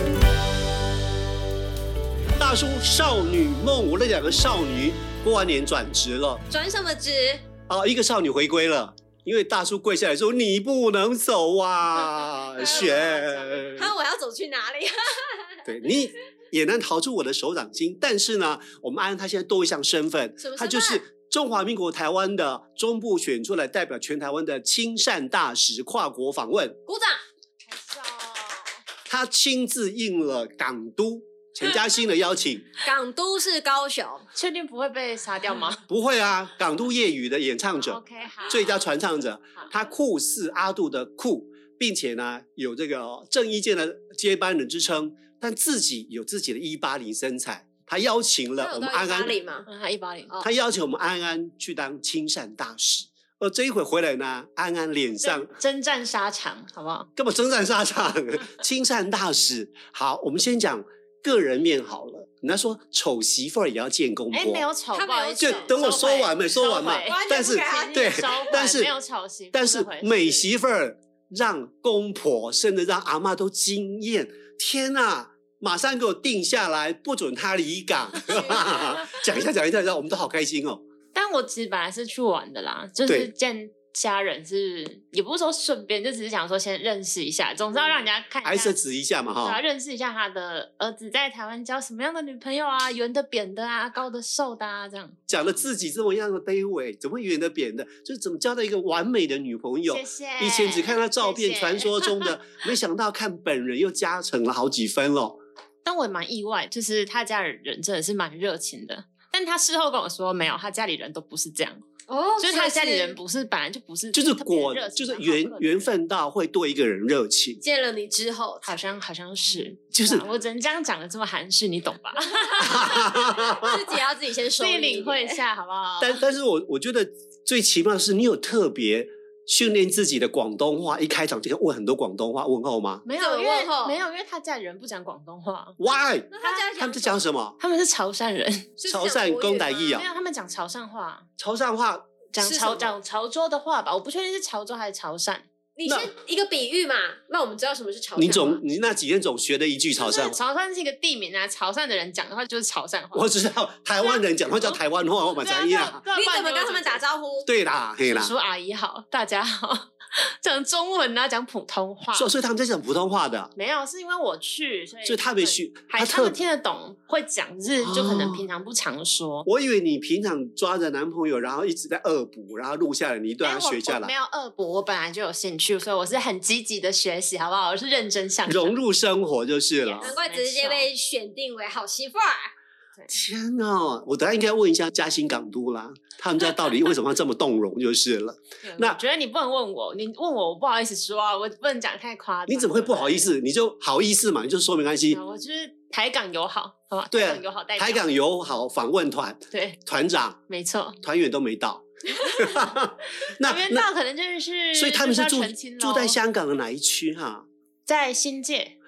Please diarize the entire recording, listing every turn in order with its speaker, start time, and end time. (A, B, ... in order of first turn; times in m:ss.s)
0:02.4-0:06.4 A
0:06.5-0:07.4 B
0:07.7-0:13.9 A
0:12.0-0:13.9 C
0:13.7-0:15.6 B
0:15.6-0:26.8 A
0:20.4-0:21.0 B
0:26.8-0:27.2 B
0:27.6-0:28.8 C
0:29.1-0:32.7 A
0:32.8-0:34.2 B
0:34.3-0:35.8 C
0:35.9-0:49.4 A
0:37.8-0:38.8 C
0:48.6-0:49.7 B
0:49.6-0:50.3 C
0:50.4-0:55.5 A
0:55.2-0:57.1 C
0:57.2-1:04.7 A
1:04.3-1:10.5 C
1:04.9-1:06.2 B
1:05.4-1:08.9 A
1:07.0-1:08.5 B
1:09.5-1:20.8 A
1:18.3-1:18.9 B
1:18.3-1:18.6 C
1:21.1-1:28.8 C
1:23.0-1:23.3 A
1:28.4-1:29.6 A
1:29.4-1:35.2 C
1:35.3-1:45.4 A
1:39.9-1:42.3 C
1:45.8-1:51.8 C
1:52.1-1:53.2 B
1:52.4-1:55.9 C
1:54.1-1:57.6 A
1:57.6-1:58.8 B
1:58.6-2:03.2 C
1:59.9-2:00.2 A
2:02.6-2:03.8 A
2:03.4-2:05.4 B
2:04.6-2:06.2 C
2:06.0-2:13.0 A
2:13.0-2:15.8 C
2:13.1-2:14.0 B
2:15.8-2:17.6 A
2:16.3-2:17.3 B
2:17.6-2:18.7 C
2:18.8-2:20.0 B
2:18.9-2:20.1 A
2:19.9-2:21.3 C
2:21.4-2:22.3 A
2:22.3-2:25.5 C
2:22.4-2:22.9 B
2:25.8-2:28.6 B
2:25.8-2:26.1 A
2:28.2-2:30.4 A
2:30.0-2:33.3 C
2:33.1-2:36.0 A
2:34.0-2:34.8 C
2:35.4-2:37.0 C
2:36.1-2:37.5 B
2:37.4-2:38.3 A
2:38.0-2:42.3 C
2:42.1-2:43.5 A
2:43.5-2:49.5 C
2:45.0-2:46.4 A
2:47.8-2:48.4 A
2:49.4-2:54.1 A
2:53.4-2:58.8 C
2:58.5-3:00.1 A
2:59.8-3:00.9 C
3:00.0-3:02.5 B
3:03.1-3:09.0 A
3:08.6-3:13.3 C
3:12.5-3:15.2 A
3:15.1-3:18.0 C
3:17.1-3:20.4 A
3:19.5-3:19.8 C
3:20.5-3:21.0 C
3:21.0-3:23.9 A
3:23.4-3:26.2 C
3:24.7-3:27.4 A
3:27.8-3:28.7 C